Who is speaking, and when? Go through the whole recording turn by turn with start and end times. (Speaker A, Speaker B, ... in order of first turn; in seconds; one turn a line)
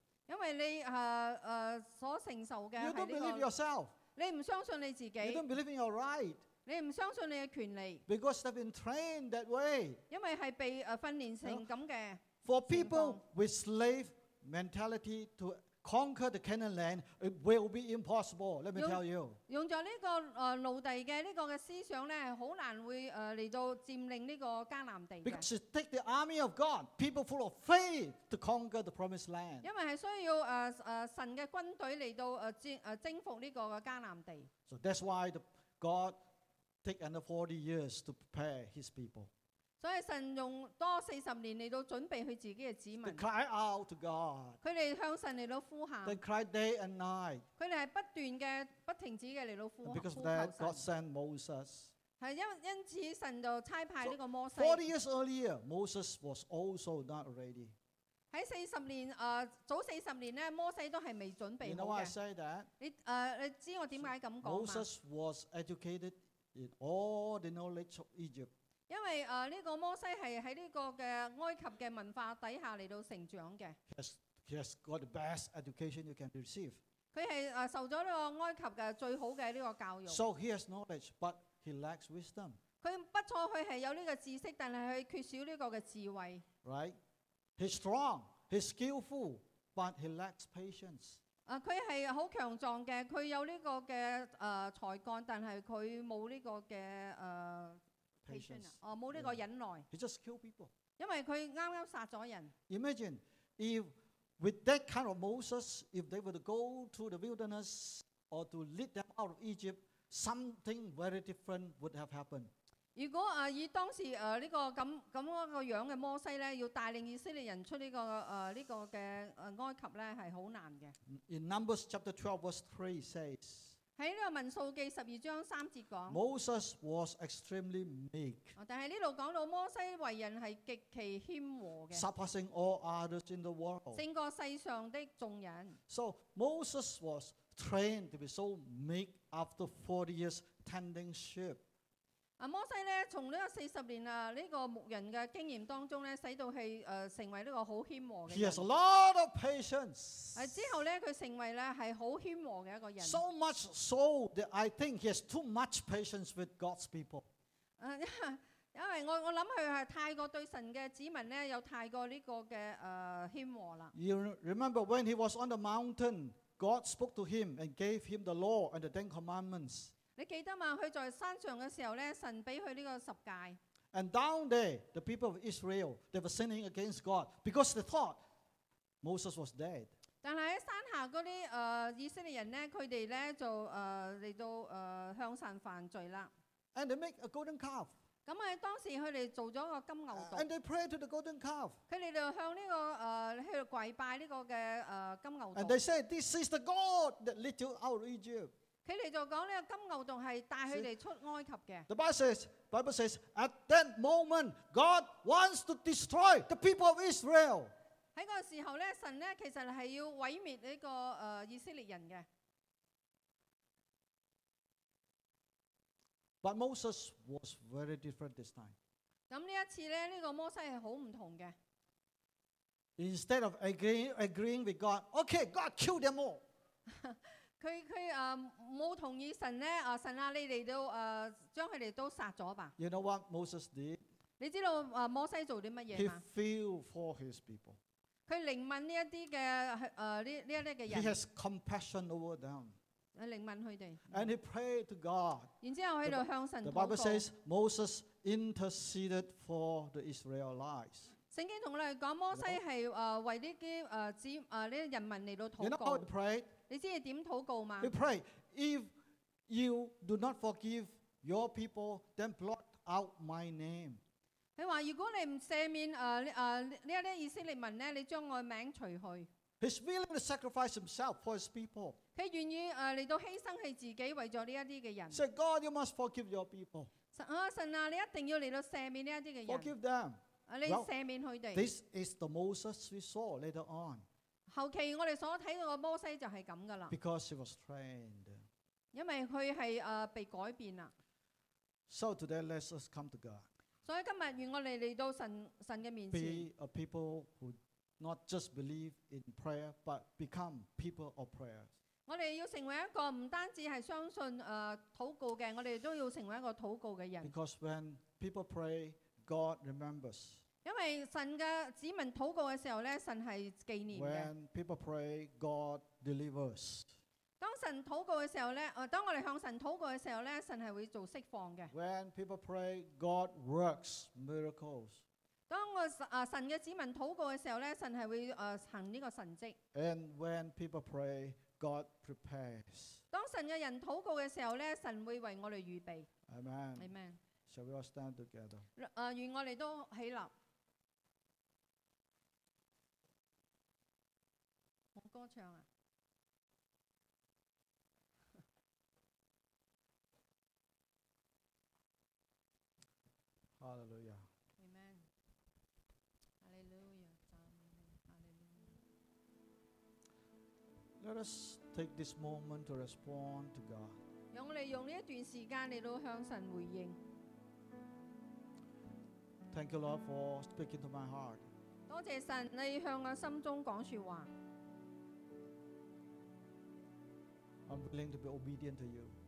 Speaker A: 0.3-3.5
Speaker B: 2.8-3.9
Speaker A: 4.1-5.4
Speaker B: 5.2-6.4
Speaker A: 6.7-8.0
Speaker B: 8.1-10.0
Speaker A: 10.1-13.2
Speaker B: 12.4-19.4
Speaker A: 18.7-25.4
Speaker B: 25.2-29.7
Speaker A: 29.6-34.5
Speaker B: 34.7-36.2
Speaker B: 36.8-39.3
Speaker A: 39.8-43.2
Speaker B: 43.0-44.6
Speaker A: 44.6-46.2
Speaker B: 46.0-47.4
Speaker A: 47.6-50.8
Speaker B: 49.8-51.9
Speaker A: 52.2-54.8
Speaker B: 54.0-57.7
Speaker A: 58.3-62.1
Speaker B: 61.6-62.7
Speaker A: 62.8-64.9
Speaker B: 64.4-68.5
Speaker A: 68.9-73.8
Speaker B: 73.9-76.8
Speaker A: 77.1-80.2
Speaker B: 80.1-82.6
Speaker A: 82.8-86.4
Speaker B: 86.6-87.0
Speaker B: 87.6-91.2
Speaker A: 91.5-99.9
Speaker B: 98.2-100.7
Speaker A: 101.0-102.5
Speaker B: 102.7-112.5
Speaker A: 112.9-120.9
Speaker B: 121.1-123.7
Speaker A: 124.0-126.2
Speaker B: 126.1-128.6
Speaker A: 128.6-132.0
Speaker B: 131.9-134.0
Speaker A: 133.9-135.8
Speaker B: 135.9-141.6
Speaker A: 142.4-148.7
Speaker B: 148.3-150.8
Speaker A: 150.3-153.2
Speaker B: 153.0-157.2
Speaker A: 157.8-163.9
Speaker B: 163.9-169.9
Speaker A: 170.2-173.6
Speaker B: 173.9-178.2
Speaker B: 179.0-179.9
Speaker A: 180.2-186.3
Speaker B: 186.7-187.9
Speaker A: 188.2-190.5
Speaker B: 190.1-191.8
Speaker A: 191.9-195.8
Speaker B: 195.5-198.5
Speaker A: 198.8-201.9
Speaker B: 201.9-207.7
Speaker A: 208.1-212.2
Speaker B: 216.4-218.7
Speaker A: 219.3-221.5
Speaker B: 223.0-226.4
Speaker A: 226.9-232.7
Speaker B: 232.8-234.0
Speaker A: 234.4-236.2
Speaker B: 235.9-237.8
Speaker A: 238.3-241.2
Speaker B: 240.9-242.7
Speaker A: 243.1-244.3
Speaker B: 244.1-245.5
Speaker A: 245.6-247.2
Speaker B: 246.0-251.1
Speaker A: 251.3-256.1
Speaker B: 252.3-252.6
Speaker B: 255.6-256.5
Speaker A: 256.7-257.9
Speaker B: 257.8-258.9
Speaker B: 259.5-264.0
Speaker A: 264.6-269.3
Speaker B: 269.6-272.0
Speaker A: 272.1-275.2
Speaker B: 275.1-276.9
Speaker A: 277.1-279.7
Speaker B: 279.4-280.9
Speaker A: 280.5-281.7
Speaker B: 281.5-284.0
Speaker A: 284.5-286.9
Speaker B: 286.9-288.4
Speaker A: 288.9-290.9
Speaker B: 291.9-293.4
Speaker A: 293.8-296.5
Speaker B: 296.1-301.7
Speaker A: 302.1-307.3
Speaker B: 307.2-310.4
Speaker A: 310.6-314.3
Speaker B: 313.9-316.9
Speaker A: 317.4-321.7
Speaker B: 321.7-325.0
Speaker A: 325.5-329.6
Speaker B: 329.7-333.0
Speaker A: 333.1-336.1
Speaker B: 336.3-336.9
Speaker A: 336.8-337.2
Speaker B: 337.5-338.6
Speaker A: 338.8-340.3
Speaker A: 344.9-345.6
Speaker B: 353.6-354.3
Speaker A: 354.6-355.1
Speaker A: 356.4-358.8
Speaker B: 361.0-364.0
Speaker A: 364.3-367.0
Speaker B: 369.5-371.4
Speaker A: 371.9-374.3
Speaker B: 377.7-379.1